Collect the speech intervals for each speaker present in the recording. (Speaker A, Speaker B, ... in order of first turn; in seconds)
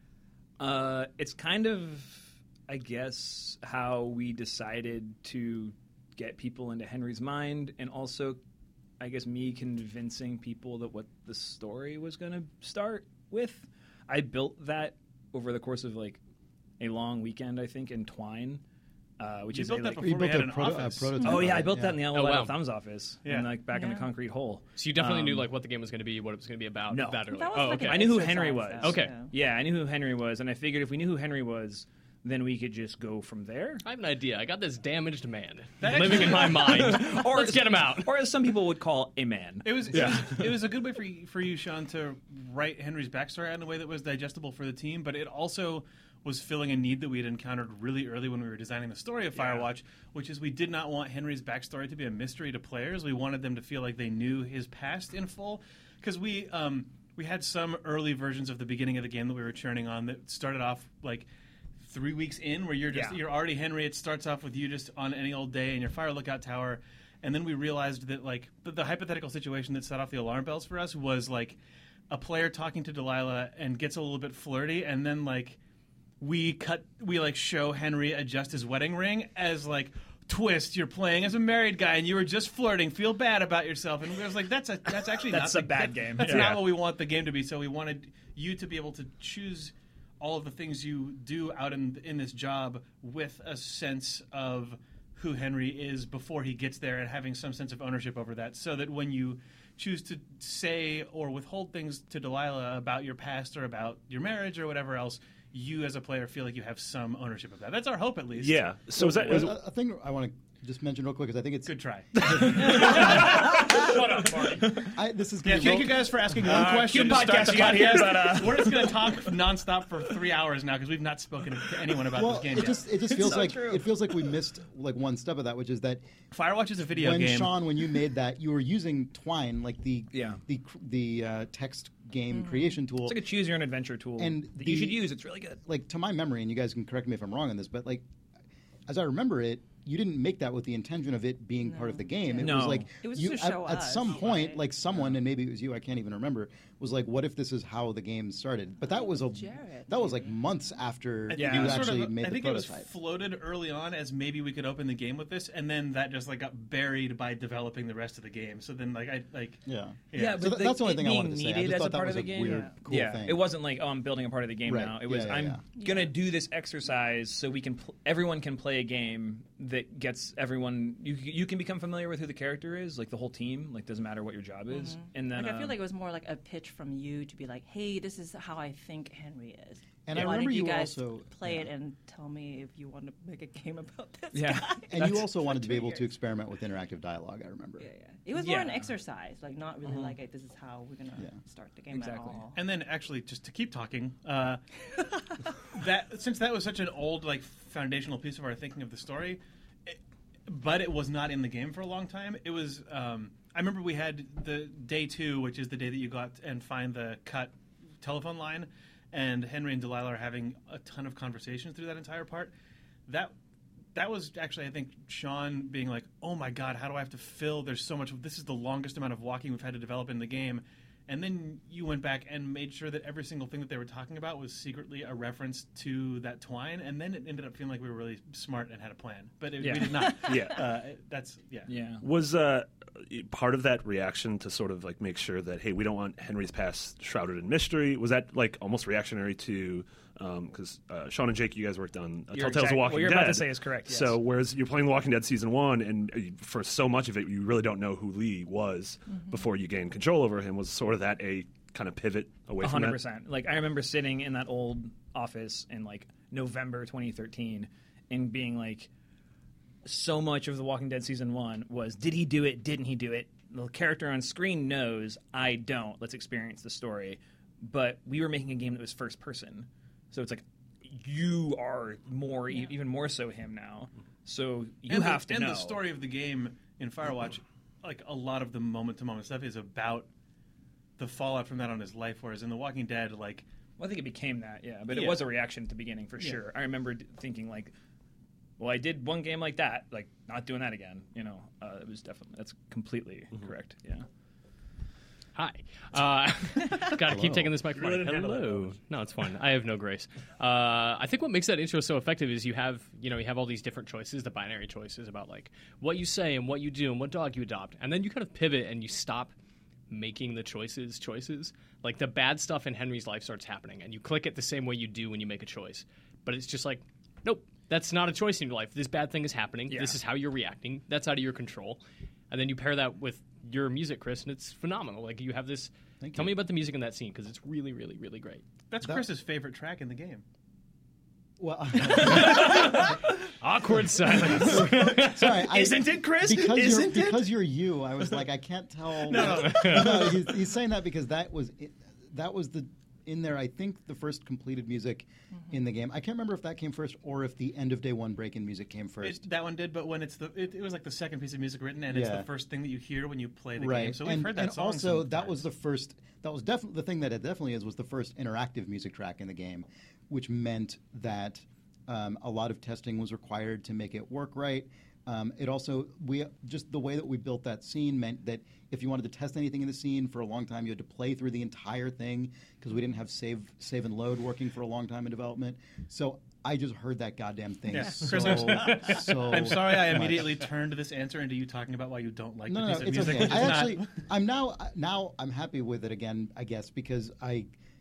Speaker A: 0.6-8.4, 9.0-16.2, 16.8-18.6, 19.2-20.1, 21.2-25.5, 26.9-33.8, 36.0-40.5, 62.9-63.2, 85.2-86.6, 112.4-114.9, 116.4-119.2, 122.5-124.0, 130.1-130.4, 133.0-135.6, 142.4-142.9, 151.3-151.9, 160.1-175.8, 184.3-185.3, 188.3-188.9, 189.8-190.2, 191.9-192.4, 229.6-230.1, 231.7-232.0, 242.3-244.2, 252.6-258.9, 259.9-275.8, 283.8-287.7, 288.6-294.1, 297.7-298.7, 319.7-320.0, 332.3-332.6, 334.2-337.4
Speaker B: 19.5-21.2, 23.2-23.5, 35.8-36.9, 39.6-61.3, 61.8-71.6, 72.1-75.6, 76.2-108.6, 111.7-114.3, 115.4-122.8, 126.3-127.6, 151.3-160.4, 192.5-194.6, 195.7-212.5, 213.1-213.3, 213.9-231.7, 274.9-280.1, 281.0-283.4, 284.9-285.2, 328.7-330.2, 339.1-340.2, 349.0-355.4, 377.7-384.0
Speaker C: 20.0-22.0, 109.0-113.3, 114.8-116.1, 122.1-126.0, 126.9-133.2, 134.2-135.0, 135.6-138.0, 138.9-152.9, 159.7-163.4, 164.6-165.6, 180.1-181.7, 184.9-187.9, 297.0-297.6, 326.0-326.3, 331.4-332.7, 334.3-349.2, 351.9-352.3, 353.6-380.4, 382.5-387.5
Speaker D: 22.0-22.6, 24.8-29.2, 33.8-38.1, 295.3-309.3, 309.9-328.4, 332.1-335.3, 339.2-339.9
Speaker E: 23.7-24.1, 27.3-29.3, 141.6-144.6, 148.9-150.3, 165.8-166.1, 174.7-186.1, 187.8-192.6, 229.9-230.4
Speaker F: 86.3-86.7, 108.3-109.5, 230.2-230.6, 232.0-253.0